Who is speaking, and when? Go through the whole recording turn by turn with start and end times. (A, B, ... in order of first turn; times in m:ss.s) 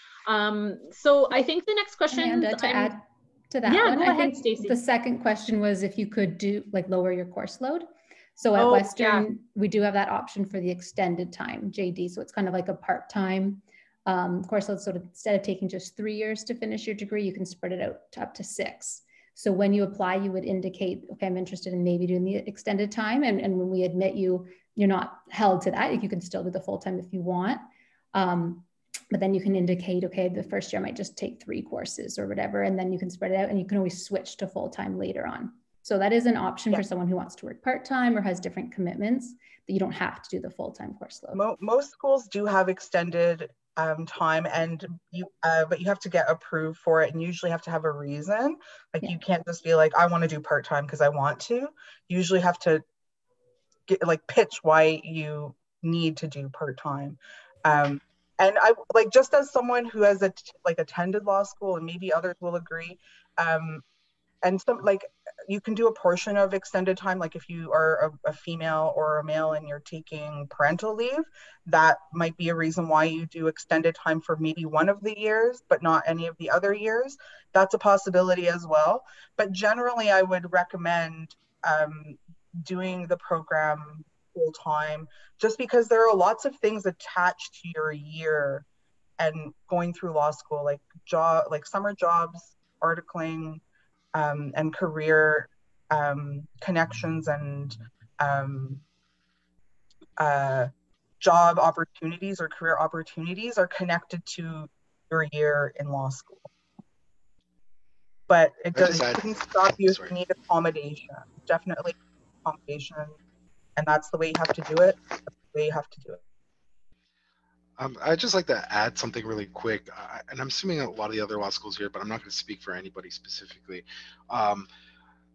0:00.3-0:02.9 A
0:02.1-0:41.4 B
0:03.6-0:04.8 A
0:08.6-0:09.2 A
0:41.3-0:52.8 C
0:53.9-1:03.8 C
1:04.4-1:28.6 C
1:29.2-1:33.6 C
1:34.1-1:38.8 C
1:40.2-1:46.5 C
1:48.3-1:53.2 C
1:48.7-1:50.1 D
1:53.8-1:56.2 C
1:57.8-2:04.7 D